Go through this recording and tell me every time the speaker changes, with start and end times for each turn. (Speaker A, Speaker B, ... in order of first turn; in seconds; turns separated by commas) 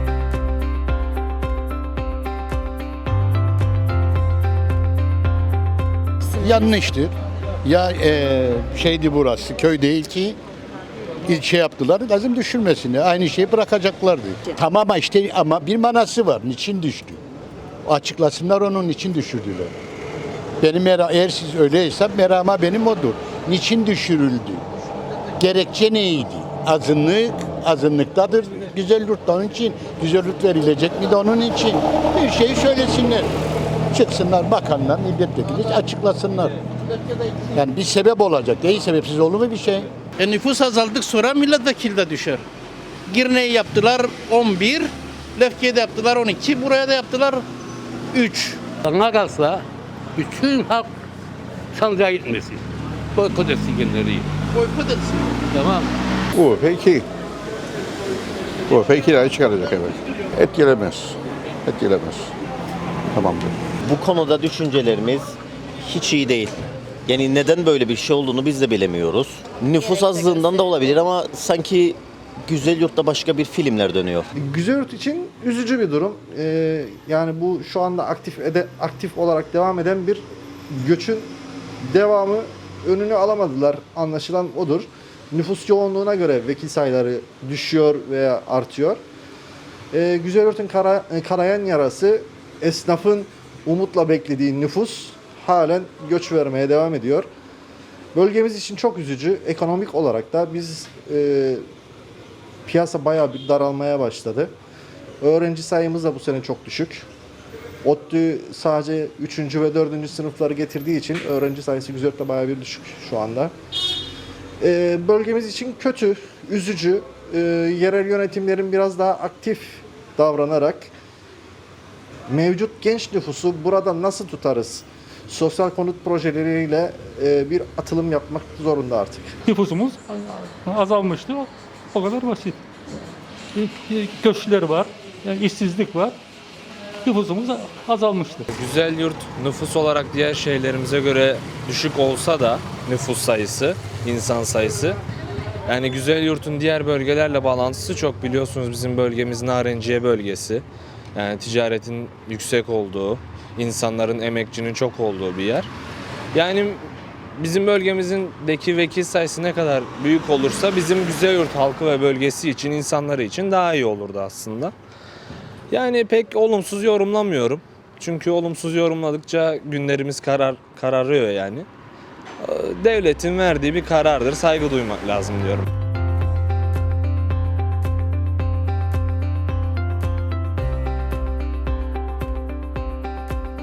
Speaker A: 6.3-7.1, Speaker A: 7.7-10.4, Speaker A: 11.3-17.2, Speaker A: 17.9-19.7, Speaker A: 20.6-24.6, Speaker A: 25.4-33.3, Speaker A: 33.9-36.5, Speaker A: 37.5-39.9, Speaker B: 40.2-42.4, Speaker B: 43.1-47.4, Speaker B: 48.1-48.6, Speaker C: 48.8-49.6, Speaker C: 50.2-50.9, Speaker C: 51.8-52.6, Speaker C: 53.2-54.3, Speaker B: 54.5-55.3, Speaker C: 55.5-55.9, Speaker D: 56.4-57.0, Speaker D: 58.7-61.1, Speaker D: 61.7-62.3, Speaker D: 63.2-63.5, Speaker E: 63.9-66.6, Speaker E: 67.1-74.3, Speaker F: 74.4-81.3, Speaker F: 81.8-89.0, Speaker F: 89.9-97.3, Speaker F: 98.1-101.6, Speaker F: 102.7-104.5, Speaker F: 105.2-107.1, Speaker F: 107.8-113.5, Speaker F: 114.6-120.9, Speaker F: 122.3-129.3, Speaker G: 129.5-132.6, Speaker G: 133.6-136.2, Speaker G: 137.1-138.5, Speaker H: 138.5-145.0, Speaker H: 145.7-150.6, Speaker H: 151.2-155.7, Speaker H: 156.3-156.8, Speaker H: 157.4-164.7, Speaker H: 165.7-171.7, Speaker H: 172.4-175.7